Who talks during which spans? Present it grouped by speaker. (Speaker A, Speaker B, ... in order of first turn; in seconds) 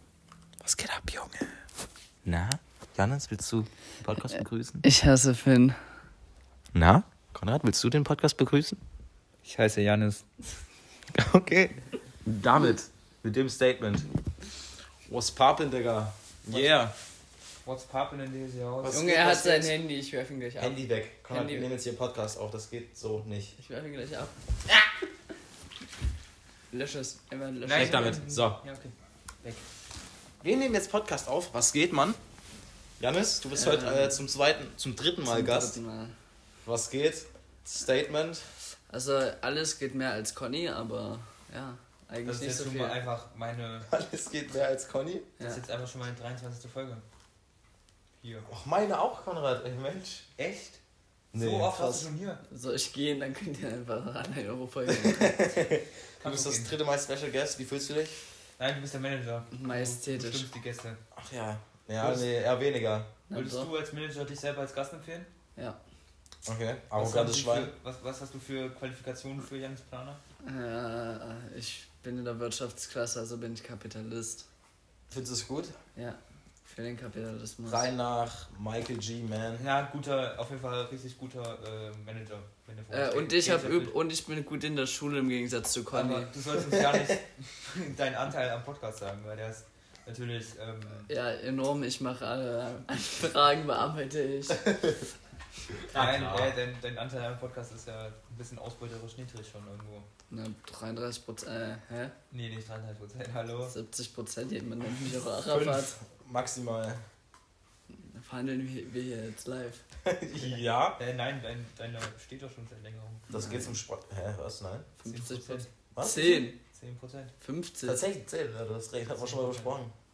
Speaker A: 0.6-1.5, 2.2-4.8, 6.7-8.8, 11.1-14.1, 15.1-16.9, 18.8-19.8, 20.6-23.5, 27.7-28.6, 30.4-32.2, 33.0-35.8, 36.6-38.5, 43.9-45.3, 48.5-50.3, 51.3-52.1, 54.9-58.2, 61.1-63.1, 66.5-67.7, 75.1-75.8, 77.7-79.7, 86.7-87.2, 95.9-96.6, 105.4-107.0, 110.0-111.0, 113.3-114.9, 115.9-116.5, 117.8-119.9
Speaker B: 4.8-5.8, 18.9-21.7, 23.6-24.4, 26.7-28.2, 33.5-34.2, 35.2-36.2, 38.9-43.0, 52.5-55.4, 59.5-60.5, 63.3-63.7, 70.4-74.5, 76.0-77.9, 82.9-86.3, 91.1-94.8, 100.3-102.1, 103.7-106.0, 107.9-109.8, 113.3-113.8, 115.0-116.6, 117.4-118.0
Speaker C: 9.4-10.2, 17.6-19.0, 27.6-29.6, 42.2-43.9, 45.4-47.0, 48.2-48.5, 50.4-50.8, 51.3-52.4, 56.2-56.7, 58.6-61.0, 62.0-62.3, 63.3-65.3, 67.0-70.2, 79.6-83.9, 85.9-91.1, 95.9-100.1, 102.3-103.7, 111.0-113.3, 115.0-115.7, 116.7-117.3, 119.2-119.7